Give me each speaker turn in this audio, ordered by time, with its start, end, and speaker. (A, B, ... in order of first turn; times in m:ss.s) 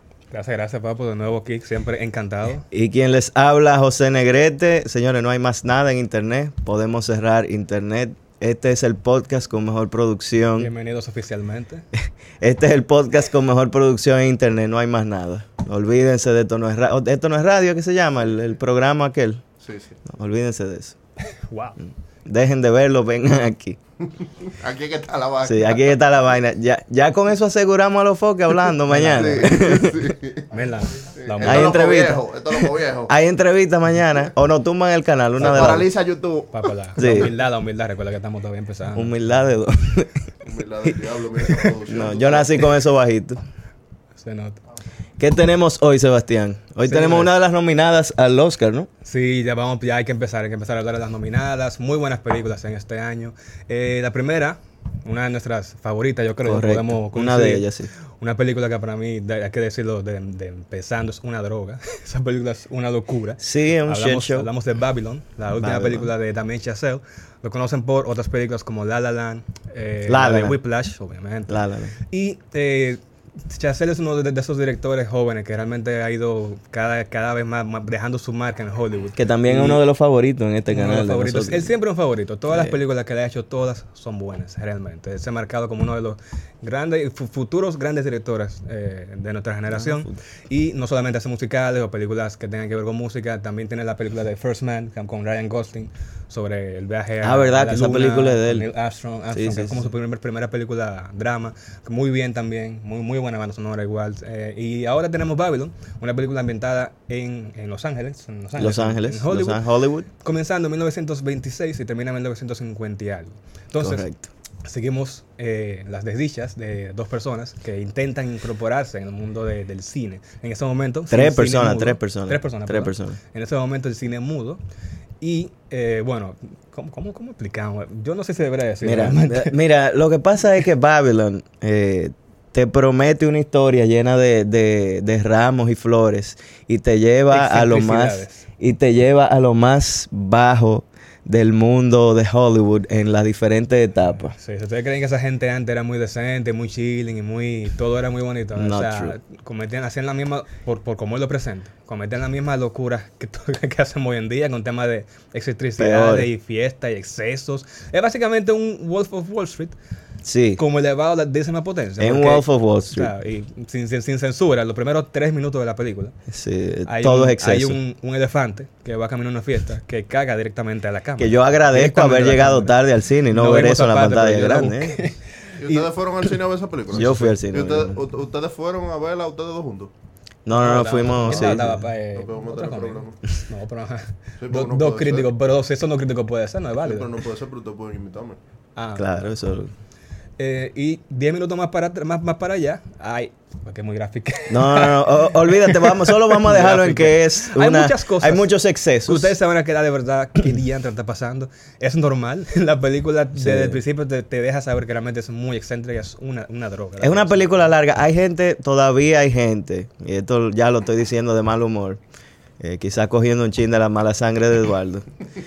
0:00.3-0:02.6 A
0:02.7-0:10.7 B
0:10.6-0:11.8 A
0:12.4-0:19.4 B
0:19.6-0:20.0 C
0:20.0-0:21.0 B
0:21.4-0:21.8 A
0:22.2-0:23.8 B
0:24.2-0:25.8 C
0:25.4-0:30.0 B
0:28.9-0:29.6 A
0:29.1-0:30.5 C
0:30.5-0:31.8 A
0:31.2-0:33.1 C
0:31.4-0:32.2 B
0:33.1-0:35.8 B
0:35.4-0:37.3 C
0:36.5-0:39.5 A
0:37.0-0:37.3 B
0:38.9-0:40.3 B
0:40.4-0:42.7 C
0:40.8-0:43.4 B
0:44.2-0:44.6 A
0:45.2-0:48.9 B
0:46.8-0:47.3 A
0:49.0-1:19.8 A
0:56.4-0:57.9 B
1:03.4-1:04.5 B
1:05.6-1:06.1 B
1:10.1-1:10.6 B
1:11.5-1:11.9 B
1:19.2-1:21.7 B
1:20.7-1:54.0 A
1:22.5-1:22.8 B
1:29.7-1:30.2 B
1:37.2-1:38.7 B
1:39.3-1:39.9 B
1:48.6-1:50.1 B
1:53.8-1:54.3 B
1:54.6-2:04.6 A
2:01.1-2:03.2 B
2:05.2-2:09.6 A
2:08.8-2:24.3 B
2:17.3-2:18.4 A
2:24.1-2:39.8 A
2:28.5-2:29.2 B
2:35.8-2:36.3 B
2:40.2-2:40.6 B
2:40.6-2:46.1 A
2:42.0-2:43.1 B
2:46.3-2:47.8 B
2:46.9-2:52.8 A
2:51.2-2:55.0 B
2:53.3-2:55.8 A
2:55.6-2:59.9 C
2:56.9-2:58.0 B
2:57.0-2:57.4 A
3:00.4-3:01.8 B
3:00.5-3:07.1 A
3:01.2-3:03.2 C
3:04.4-3:05.3 C
3:06.8-3:08.4 C
3:08.8-3:09.4 A
3:09.0-3:09.7 B
3:10.4-3:18.5 A
3:14.5-3:19.3 B
3:19.0-3:27.8 A
3:23.4-3:23.8 B
3:27.0-3:32.0 B
3:32.6-3:35.0 B